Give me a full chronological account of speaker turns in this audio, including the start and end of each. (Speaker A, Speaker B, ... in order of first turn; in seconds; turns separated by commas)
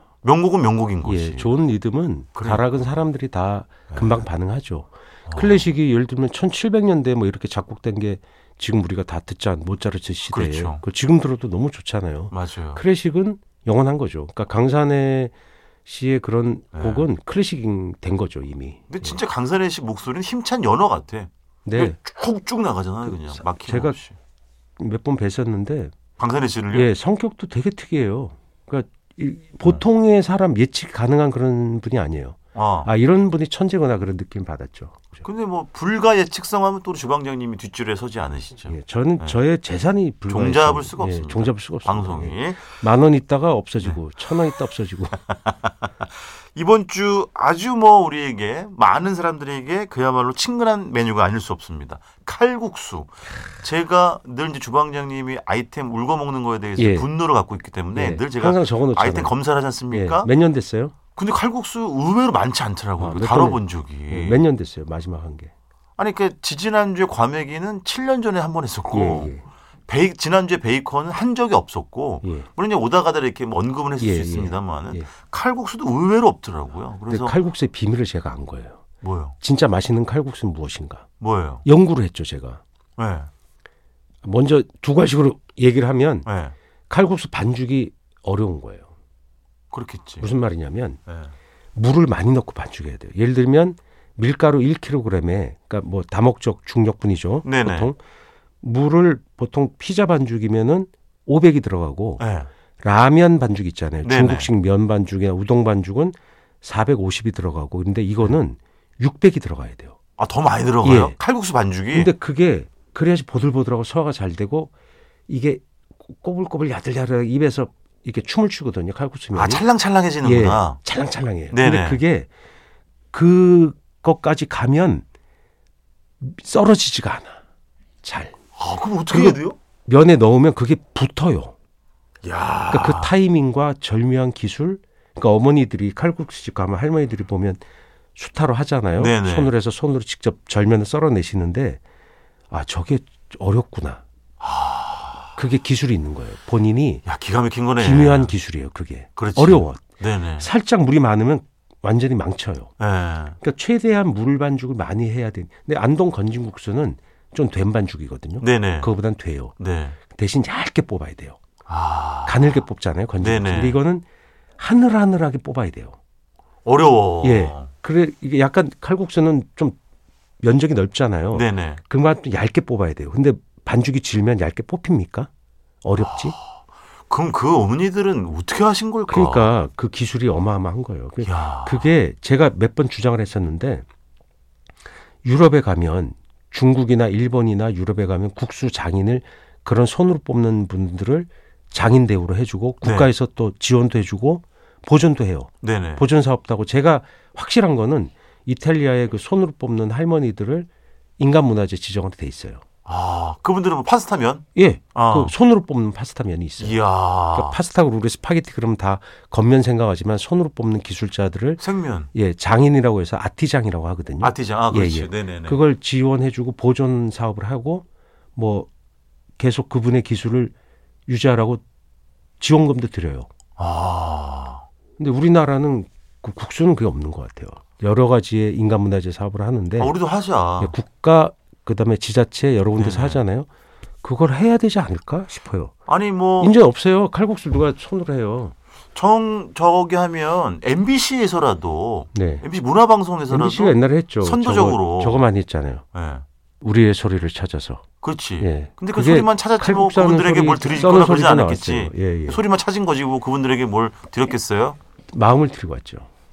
Speaker A: 0.2-1.5, Speaker B: 1.1-15.3, Speaker A: 2.4-2.6, Speaker A: 3.9-4.2, Speaker A: 5.3-5.7, Speaker A: 10.3-10.8, Speaker A: 12.3-12.8, Speaker B: 15.8-19.2, Speaker A: 16.8-17.1, Speaker A: 18.9-24.1, Speaker B: 21.6-22.0, Speaker B: 23.1-24.0, Speaker B: 24.8-25.9, Speaker A: 26.2-26.9, Speaker B: 26.7-35.2, Speaker A: 32.5-32.9, Speaker A: 35.2-39.4, Speaker B: 38.7-45.2, Speaker A: 40.3-42.6, Speaker A: 45.3-46.0, Speaker A: 46.5-60.3, Speaker B: 56.8-57.1, Speaker B: 57.9-59.4, Speaker B: 59.9-61.0, Speaker A: 61.2-64.5, Speaker B: 63.0-65.5, Speaker A: 66.0-69.3, Speaker B: 68.9-69.5, Speaker A: 69.9-77.4, Speaker B: 72.2-72.5, Speaker B: 74.0-75.1, Speaker B: 77.1-78.8, Speaker A: 79.0-79.3, Speaker B: 79.4-81.1, Speaker A: 81.2-81.7, Speaker B: 81.6-82.6, Speaker A: 83.0-83.3, Speaker B: 84.2-86.3, Speaker A: 86.3-86.5, Speaker B: 86.9-88.9, Speaker A: 89.7-90.3, Speaker B: 90.2-91.0, Speaker B: 91.8-98.0, Speaker A: 97.4-97.9, Speaker B: 98.6-102.2, Speaker A: 102.2-102.5, Speaker B: 102.8-110.0, Speaker A: 104.0-104.5, Speaker A: 110.2-112.1, Speaker B: 110.8-111.2, Speaker B: 111.9-114.7, Speaker B: 115.3-119.7, Speaker A: 119.3-120.8, Speaker B: 120.2-122.3, Speaker A: 121.5-122.0, Speaker B: 123.1-125.0, Speaker B: 126.2-127.4, Speaker B: 128.0-128.4, Speaker A: 128.6-129.6, Speaker B: 129.1-131.5, Speaker A: 132.2-133.2, Speaker B: 132.7-137.6, Speaker B: 138.2-141.8, Speaker A: 139.0-139.5, Speaker B: 142.5-144.0, Speaker A: 144.4-145.3, Speaker B: 145.4-147.1, Speaker A: 147.1-148.3, Speaker B: 147.8-149.8, Speaker A: 149.2-150.5, Speaker B: 150.4-152.7, Speaker A: 152.8-153.4, Speaker B: 153.4-159.5, Speaker A: 158.4-158.9, Speaker A: 159.6-160.0, Speaker B: 160.1-161.4, Speaker A: 161.7-162.6, Speaker B: 162.3-164.1, Speaker A: 163.2-163.8, Speaker B: 164.6-166.0, Speaker A: 166.7-167.7, Speaker B: 167.2-169.8, Speaker B: 170.4-175.3, Speaker A: 171.3-171.8, Speaker B: 175.8-176.4, Speaker A: 176.0-176.5, Speaker A: 177.1-179.5, Speaker B: 179.1-183.9, Speaker A: 181.2-181.9, Speaker B: 185.2-202.6, Speaker A: 192.8-193.1, Speaker A: 195.6-196.1, Speaker A: 202.9-205.3, Speaker B: 204.6-218.7, Speaker A: 206.6-207.6, Speaker A: 211.6-212.1, Speaker A: 214.2-215.6, Speaker B: 219.4-220.5, Speaker B: 221.1-221.6, Speaker B: 222.4-223.3, Speaker A: 223.6-224.7, Speaker B: 225.0-230.0, Speaker A: 229.8-230.8, Speaker B: 230.6-233.5, Speaker A: 232.8-233.2, Speaker B: 234.0-235.7, Speaker A: 235.9-236.6, Speaker B: 236.4-238.6, Speaker A: 238.9-245.3, Speaker B: 242.1-242.5, Speaker B: 243.3-245.8, Speaker A: 245.9-246.2, Speaker B: 246.6-247.8, Speaker A: 248.0-254.8, Speaker B: 248.4-252.4, Speaker B: 255.1-256.1